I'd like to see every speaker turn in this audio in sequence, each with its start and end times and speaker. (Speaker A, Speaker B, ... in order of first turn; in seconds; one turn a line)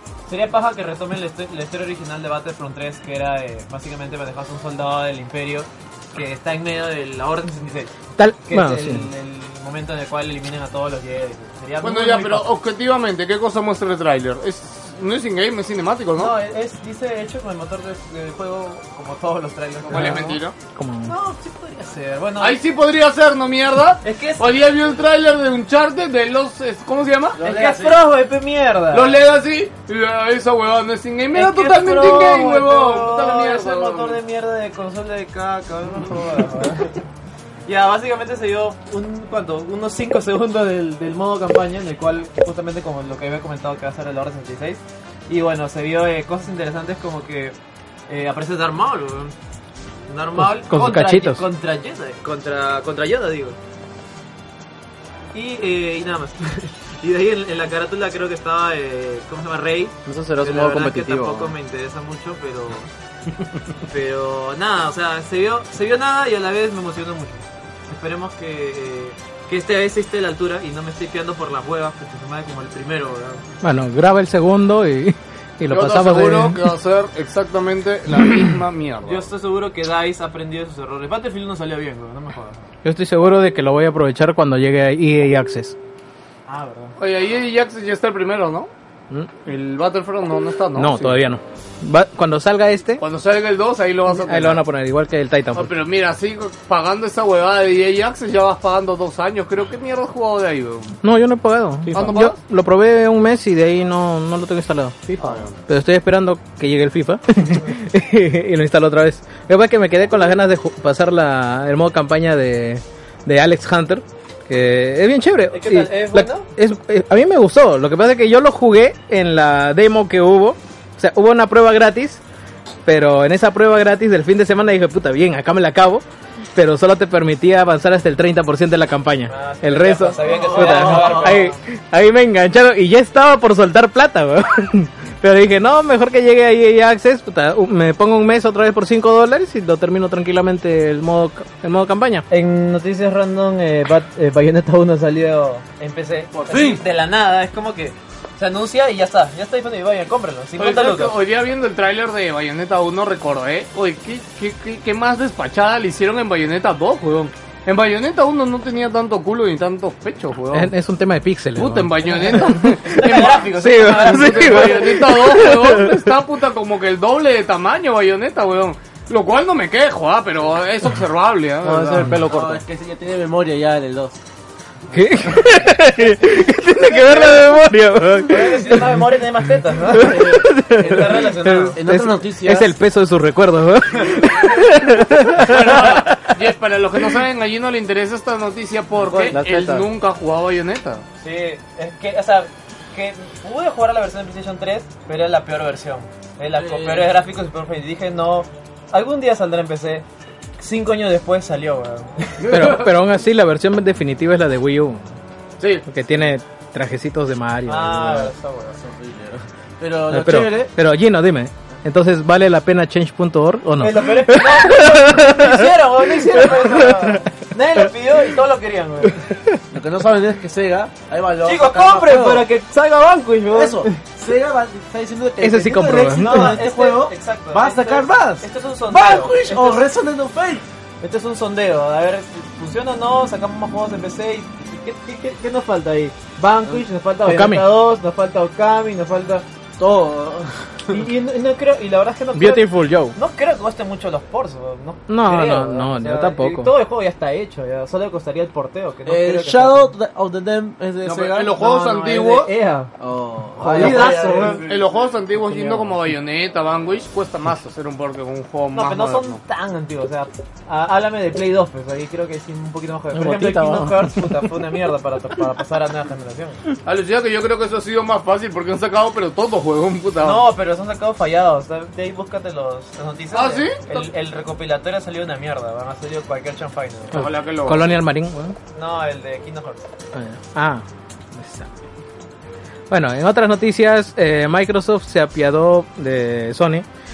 Speaker A: 0.3-7.9
Speaker B: 8.2-9.1
Speaker A: 8.5-12.6
Speaker C: 11.8-16.4
Speaker A: 16.2-20.4
Speaker C: 19.8-20.6
Speaker B: 20.8-21.1
Speaker A: 21.1-22.6
Speaker C: 22.4-27.4
Speaker A: 24.0-24.5
Speaker D: 27.4-28.1
Speaker A: 27.4-29.1
Speaker C: 28.9-34.2
Speaker A: 31.3-37.0
Speaker A: 37.7-47.6
Speaker A: 48.1-49.4
Speaker A: 50.1-53.6
Speaker B: 50.4-51.4
Speaker A: 55.3-62.9
Speaker E: 60.1-61.5
Speaker A: 63.9-73.4
Speaker B: 73.6-76.6
Speaker C: 75.7-79.3
Speaker A: 79.1-82.7
Speaker B: 82.8-85.8
Speaker A: 86.5-86.9
Speaker C: 87.0-88.7
Speaker C: 89.5-91.2
Speaker B: 90.8-93.0
Speaker C: 93.0-94.6
Speaker B: 94.1-95.8
Speaker C: 95.5-101.0
Speaker B: 101.0-122.2
Speaker C: 101.9-102.4
Speaker C: 105.2-105.5
Speaker A: 115.5-116.5
Speaker B: 122.8-126.0
Speaker B: 126.5-142.3
Speaker A: 129.3-131.6
Speaker D: 130.2-131.4
Speaker A: 142.3-151.2
Speaker D: 146.3-146.8
Speaker C: 150.6-160.7
Speaker B: 160.5-166.0
Speaker C: 161.6-172.1
Speaker A: 162.1-165.0
Speaker E: 171.6-172.6
Speaker D: 172.2-174.2
Speaker B: 174.9-178.9
Speaker A: 178.3-181.8
Speaker B: 179.9-186.2
Speaker D: 180.1-181.2
Speaker D: 181.7-182.7
Speaker C: 185.4-191.0
Speaker E: 189.3-189.9
Speaker A: 191.2-200.1
Speaker D: 196.6-197.1
Speaker A: 200.6-202.7
Speaker B: 202.5-205.1
Speaker B: 205.9-208.3
Speaker A: 207.7-208.8
Speaker D: 208.7-210.7
Speaker B: 210.1-217.3
Speaker A: 213.8-219.2
Speaker D: 219.7-222.5
Speaker A: 221.4-224.0
Speaker D: 223.5-230.6
Speaker B: 225.4-226.5
Speaker A: 226.2-229.8
Speaker A: 231.0-239.4
Speaker B: 237.2-237.7
Speaker D: 239.8-240.9
Speaker A: 240.9-249.9
Speaker B: 242.3-243.2
Speaker B: 245.1-246.7
Speaker D: 249.1-251.6
Speaker C: 251.1-252.5
Speaker A: 251.5-252.9
Speaker D: 253.0-254.9
Speaker A: 253.6-254.6
Speaker C: 253.8-259.4
Speaker A: 255.5-255.9
Speaker A: 258.7-266.6
Speaker E: 263.1-264.5
Speaker C: 266.9-270.5
Speaker A: 270.2-277.2
Speaker C: 273.3-274.1
Speaker C: 277.1-277.9
Speaker B: 277.1-278.6
Speaker A: 278.7-279.9
Speaker B: 280.1-281.7
Speaker B: 282.9-286.9